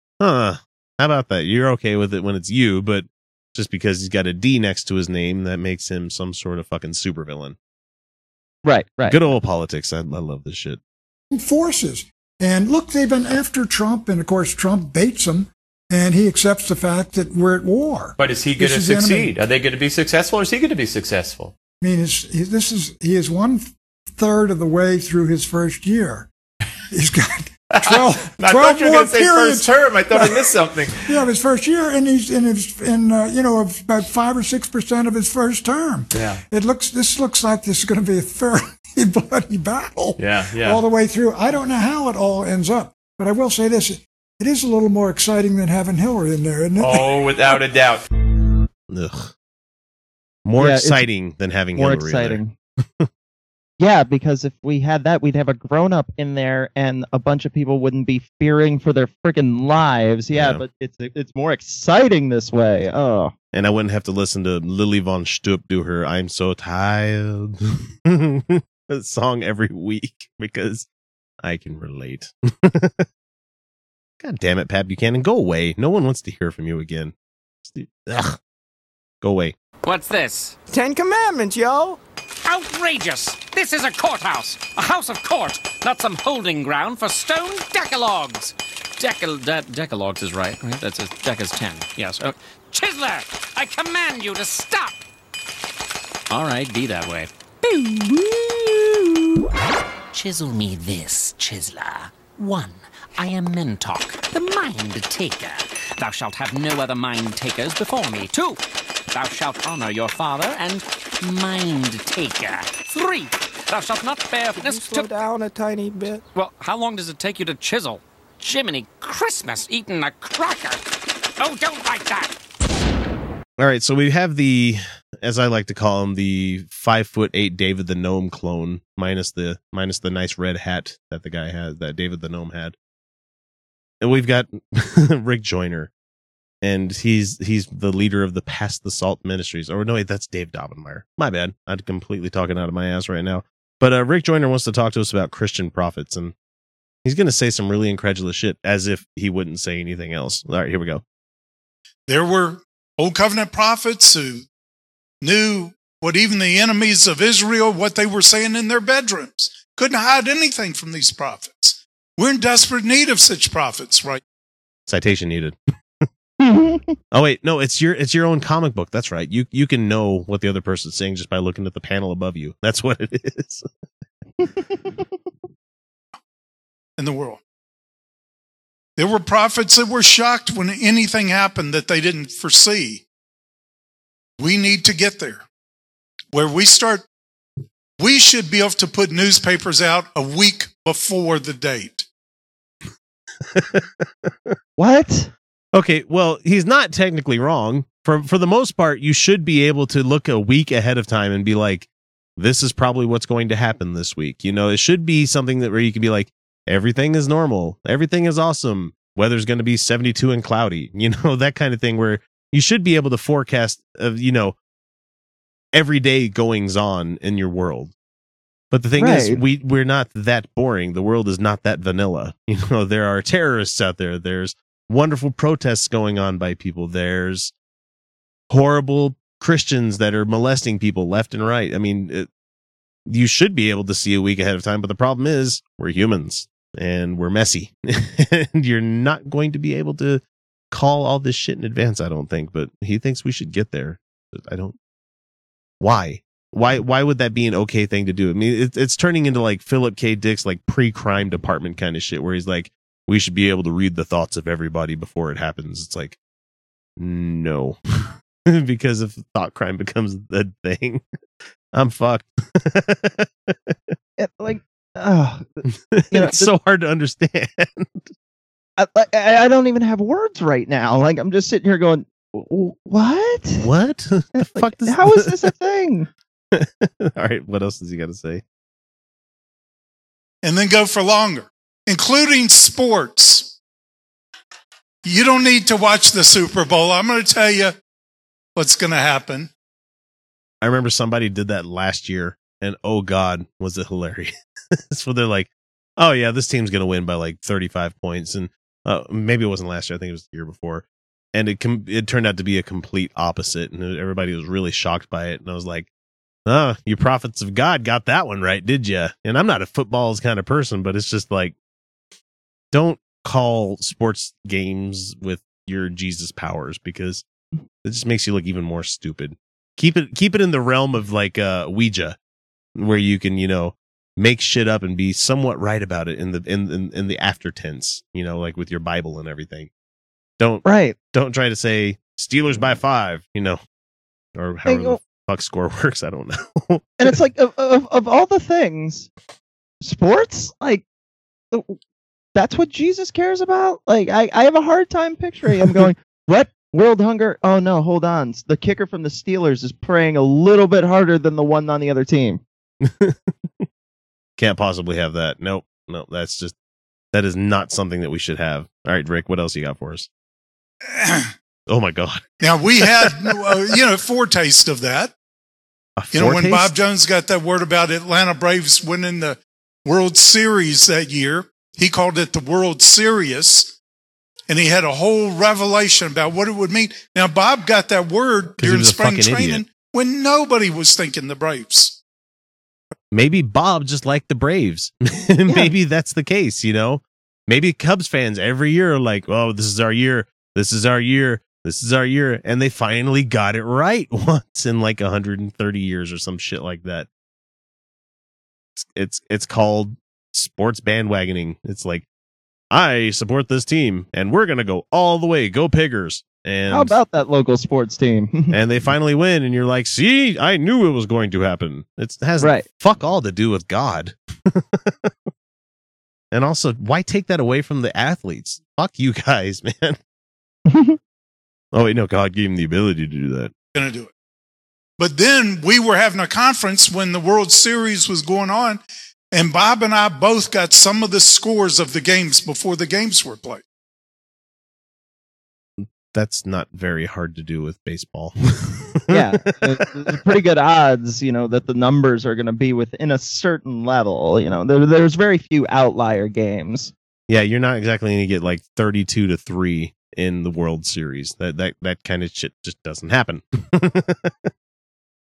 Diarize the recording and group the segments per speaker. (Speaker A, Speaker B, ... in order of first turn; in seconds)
Speaker A: 0.2-7.5, 9.1-10.8, 48.9-49.3, 50.4-52.4, 60.3-60.6, 63.5-70.9, 71.4-73.0, 74.2-77.1, 77.7-78.4, 79.2-79.5, 123.6-132.7, 134.0-135.9, 136.6-146.3, 147.0-151.0, 164.9-165.5, 167.1-173.7, 193.4-194.5, 195.7-214.6, 215.7-217.9, 218.7-227.5, 228.5-232.3, 233.1-244.7, 245.8-256.2, 257.0-261.0, 261.7-263.8, 265.7-268.1, 273.6-275.4, 276.5-278.4, 290.6-294.3, 294.9-305.9, 306.5-311.5, 312.7-317.2, 317.8-322.2, 322.8-329.7, 330.4-333.6, 334.4-337.1, 352.8-353.2, 354.4-356.5, 357.1-360.1, 361.7-362.2, 366.0-366.7, 378.6-379.6, 383.1-397.1, 398.8-402.0, 402.7-406.9, 408.5-415.1, 416.3-420.0, 421.7-423.5, 435.8-439.2, 447.3-454.5
Speaker B: 8.6-9.2, 50.6-51.0, 51.8-52.5, 53.8-63.3, 166.4-166.9, 174.4-175.0, 194.8-195.3, 219.0-219.4, 264.2-265.4, 266.1-266.5, 268.8-273.7, 274.4-276.1, 330.6-331.0, 334.6-335.0, 337.0-339.1, 339.8-340.8, 341.5-341.8, 342.3-352.4, 406.7-408.6, 412.4-412.6, 420.7-421.0, 439.1-446.9
Speaker C: 11.3-19.4, 21.8-26.3, 26.9-30.4, 31.1-47.1
Speaker D: 18.2-21.5, 27.7-31.2, 36.1-36.4, 40.2-40.8, 46.8-48.0
Speaker E: 79.8-80.5, 82.4-95.0, 96.3-99.5, 100.1-108.6, 109.1-115.2, 116.3-120.8, 121.4-122.3
Speaker F: 80.7-82.0, 114.5-116.2
Speaker G: 152.1-154.4, 155.2-164.2, 177.0-177.4, 179.0-183.0, 184.4-185.4, 186.3-187.0, 188.0-192.1, 280.4-283.5, 285.0-287.7, 288.6-289.5, 360.9-361.3, 362.4-365.1, 366.1-373.7, 374.5-382.0, 423.8-424.1, 425.0-428.8, 429.3-433.6